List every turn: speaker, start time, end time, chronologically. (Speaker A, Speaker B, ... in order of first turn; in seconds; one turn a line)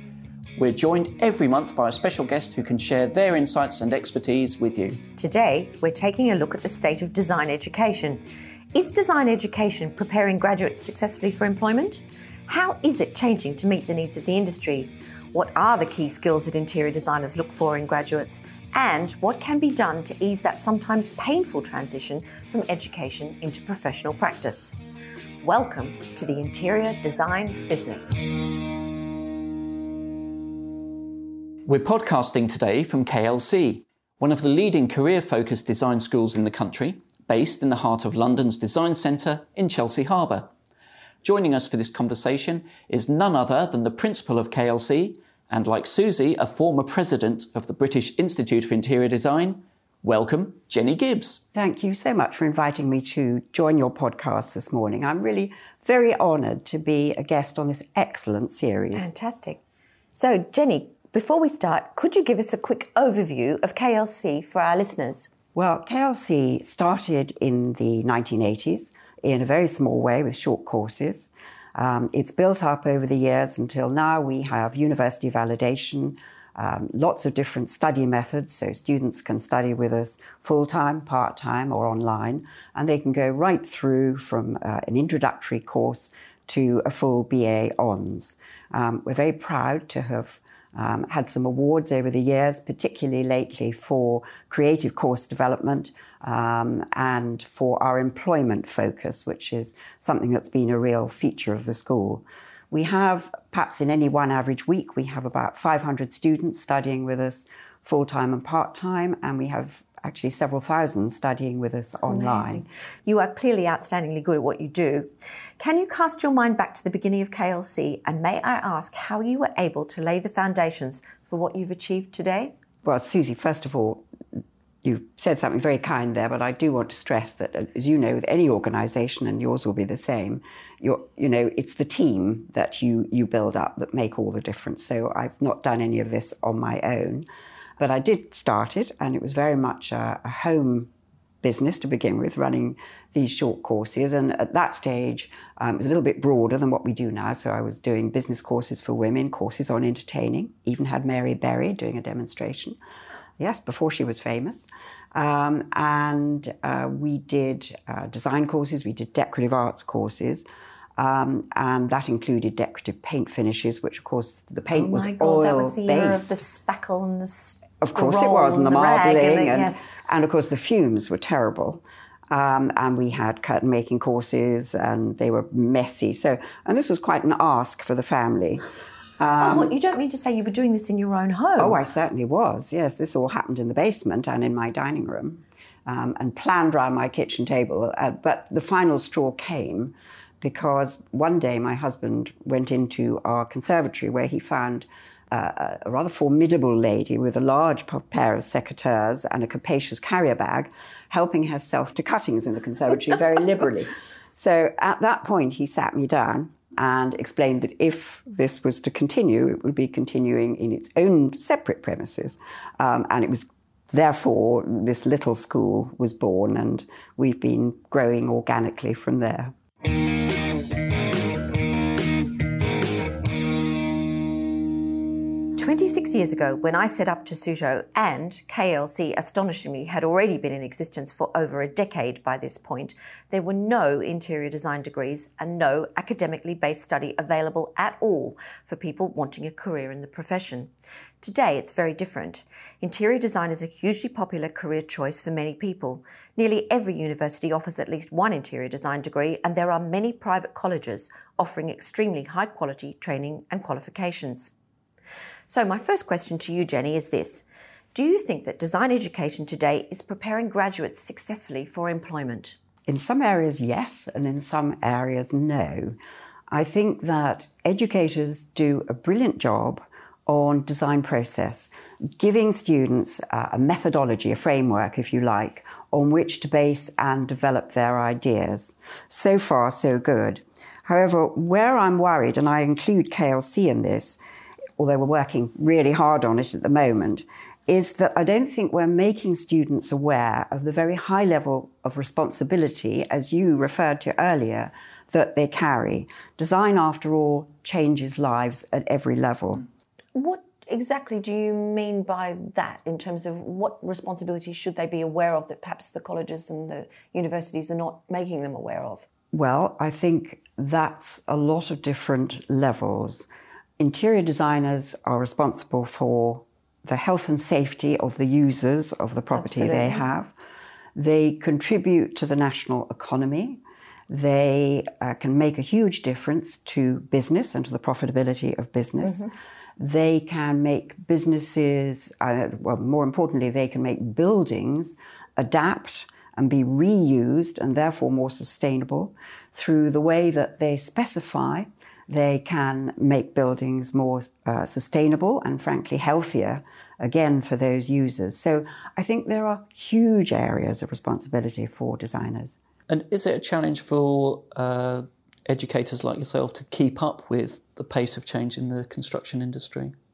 Speaker A: 0.6-5.0
Speaker B: 5.2-24.8
Speaker B: 25.4-28.3
Speaker A: 31.7-40.5
Speaker A: 41.2-51.4
Speaker C: 51.5-59.1
Speaker B: 58.9-59.6
Speaker B: 60.1-65.3
Speaker C: 65.5-112.6
Speaker B: 112.1-122.5
Speaker C: 122.8-137.3
Speaker C: 137.8-140.9
Speaker C: 141.4-152.8
Speaker C: 153.4-160.4
Speaker C: 161.0-166.4
Speaker B: 164.7-169.8
Speaker C: 167.8-178.6
Speaker C: 179.2-179.8
Speaker B: 179.4-181.8
Speaker C: 181.6-219.5
Speaker B: 225.6-254.5
Speaker B: 255.5-262.6
Speaker C: 262.9-266.0
Speaker C: 266.5-284.2
Speaker C: 284.8-299.6
Speaker B: 300.1-309.1
Speaker C: 309.3-313.3
Speaker C: 313.8-320.3
Speaker B: 319.3-320.0
Speaker C: 320.9-352.6
Speaker A: 352.9-359.9